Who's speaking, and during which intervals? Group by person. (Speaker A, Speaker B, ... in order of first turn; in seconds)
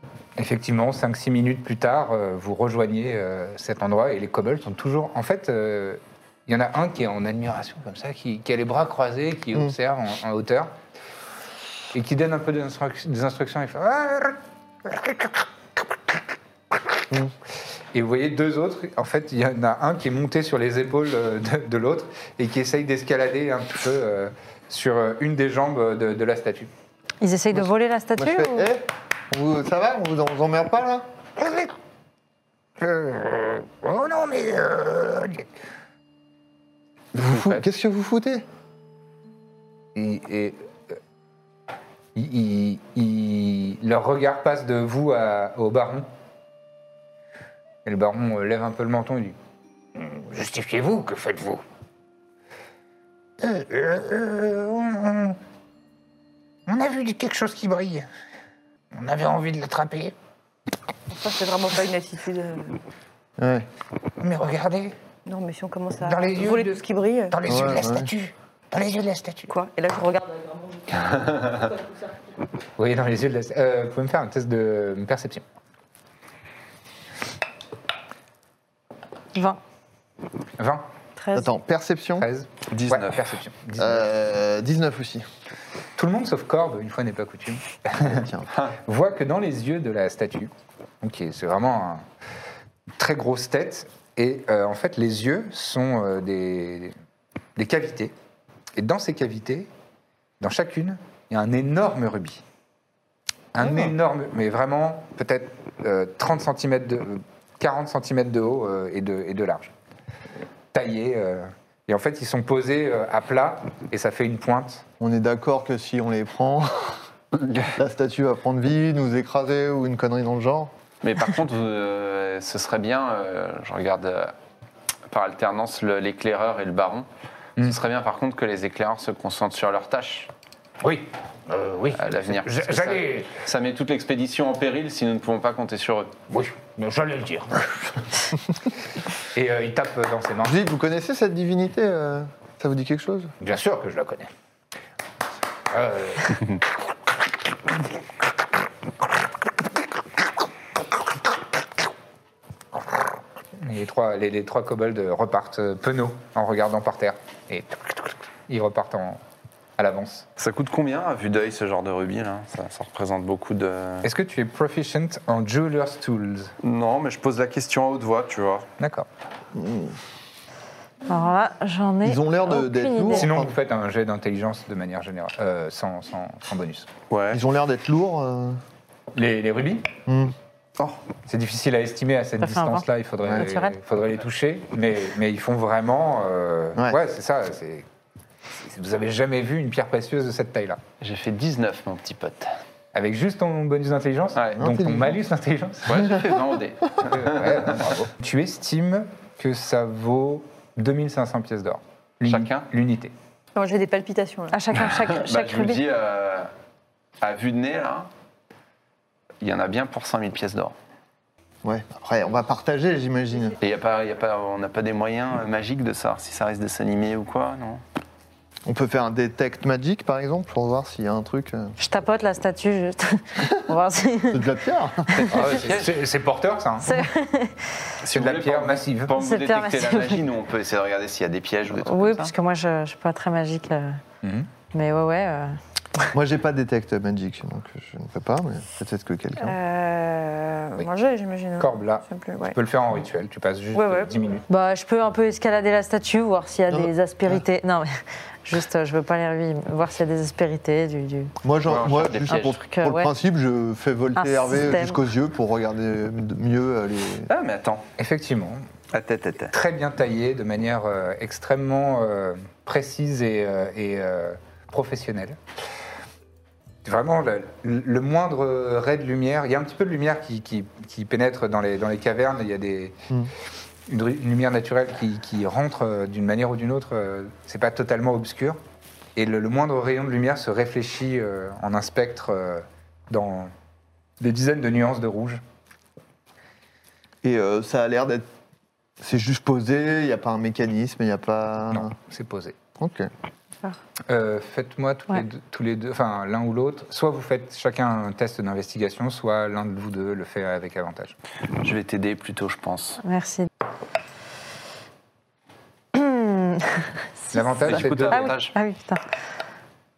Speaker A: 0.4-10.7, 11.9-16.2, 16.7-17.0, 17.9-26.7, 31.4-31.7, 32.8-35.5, 37.3-37.6, 39.9-40.6, 42.1-46.1, 47.8-49.4, 49.9-51.6, 53.4-55.4, 56.6-58.1, 58.9-60.1, 64.2-65.0, 66.0-66.8, 67.3-69.5, 72.8-75.4, 80.6-80.9, 82.2-84.0, 86.0-88.2, 88.8-92.0, 93.0-96.9, 97.5-98.1, 98.8-99.7, 100.4-102.4, 103.5-109.7, 110.7-114.8, 130.8-133.3, 136.3-137.7, 139.3-140.6, 143.4-144.3, 145.7-146.6, 153.6-159.2, 159.8-160.2, 164.0-166.5, 168.8-169.1, 173.2-176.9, 179.1-179.9, 181.2-187.9, 188.5-190.8, 192.9-196.2, 197.1-203.1, 225.3-227.0, 228.1-229.1, 234.2-234.5, 241.6-244.4, 258.0-258.7, 259.5-265.4, 266.8-272.9, 273.9-278.6, 279.1-283.5, 284.2-285.4, 291.7-292.6, 294.1-301.1, 307.3-308.4
Speaker B: 27.2-28.7, 79.3-79.6, 171.1-173.3, 182.4-183.8, 204.5-205.8, 221.8-224.5, 226.8-227.9, 229.1-230.2, 231.8-234.0, 234.7-235.6, 244.5-251.3, 252.3-253.1, 254.2-255.0, 303.0-303.5, 305.9-309.0
Speaker C: 27.5-31.1, 37.1-38.4, 63.4-63.7, 67.4-68.1, 81.3-82.3, 83.8-85.3, 88.0-88.5, 115.0-117.0, 117.7-120.7, 140.4-143.3, 169.5-170.0, 172.0-173.5, 177.3-178.6, 180.1-180.3, 183.2-183.5, 194.6-195.2, 211.6-213.6, 218.7-221.8, 224.3-225.4, 236.1-239.6, 246.7-247.4, 251.4-257.3, 287.2-288.3, 289.0-291.9, 292.8-293.1
Speaker D: 61.1-62.8, 65.2-67.4, 69.5-71.1, 81.2-81.5, 203.5-204.6, 239.4-242.6, 243.7-244.1
Speaker E: 82.7-83.3, 117.3-117.7, 121.0-124.3, 125.1-130.3, 131.9-136.2, 160.4-164.1, 166.6-168.7, 177.1-177.4, 191.0-192.5, 195.8-197.9, 202.2-202.7, 204.8-206.5, 207.2-208.1, 209.4-210.7, 213.6-217.8, 225.2-226.0, 228.0-232.3, 251.7-252.6, 257.3-257.9, 258.9-259.5, 301.6-303.0, 307.6-308.5